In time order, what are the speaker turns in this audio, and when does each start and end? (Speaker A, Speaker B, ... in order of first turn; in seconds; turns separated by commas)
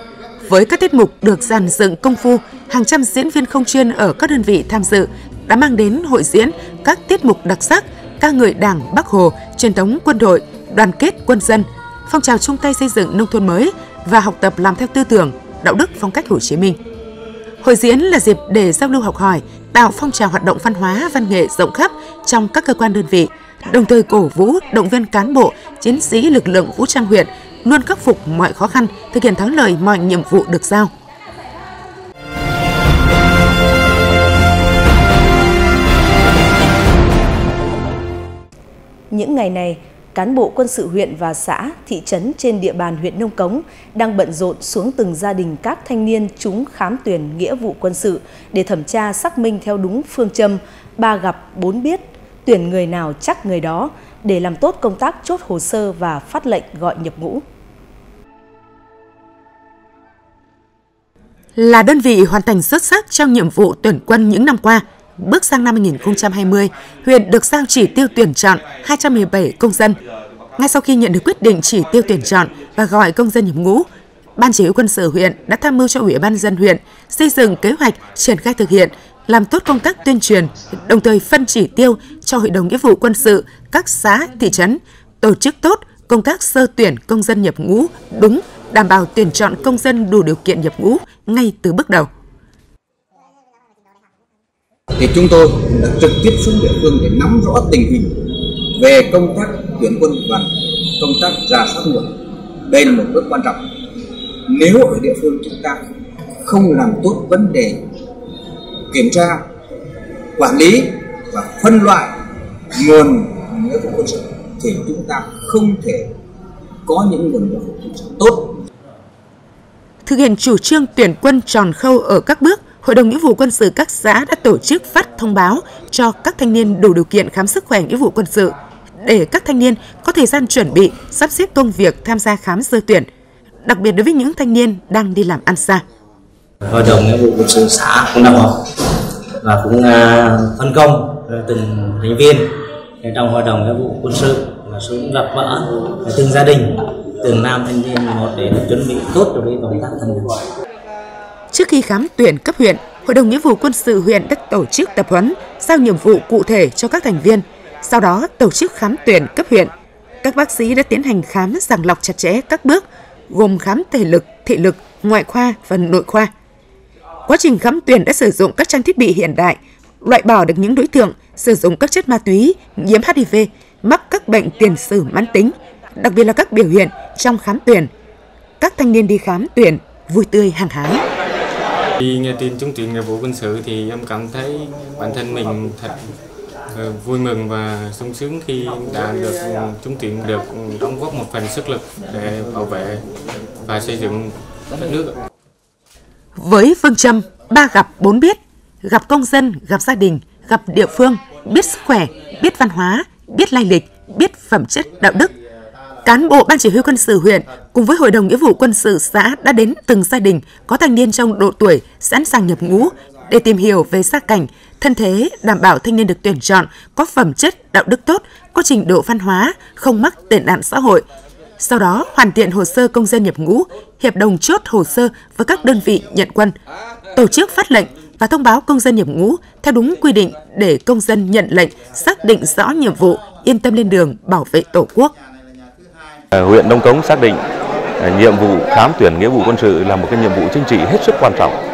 Speaker A: 0.4-16.8, Speaker A: 17.6-30.9, Speaker B: 39.1-57.4, Speaker A: 61.6-70.0, Speaker A: 70.6-73.9, Speaker A: 74.4-92.1, Speaker C: 95.0-98.2, Speaker C: 98.8-102.1, Speaker C: 102.7-103.6, Speaker C: 104.5-105.8, Speaker C: 106.5-107.8, Speaker C: 108.9-109.4, Speaker C: 110.4-112.1, Speaker C: 112.8-116.1, Speaker C: 116.9-118.6, Speaker A: 120.0-133.1, Speaker A: 133.7-135.8, Speaker D: 136.7-138.6, Speaker D: 139.4-142.5, Speaker D: 143.0-150.5, Speaker A: 151.5-166.3, Speaker A: 167.3-177.9, Speaker A: 178.6-181.0, Speaker E: 182.0-186.1, Speaker E: 186.7-195.1, Speaker A: 196.4-205.3, Speaker A: 206.0-221.1, Speaker A: 221.6-226.6, Speaker A: 227.2-235.1, Speaker F: 236.4-237.4, Speaker F: 238.0-241.6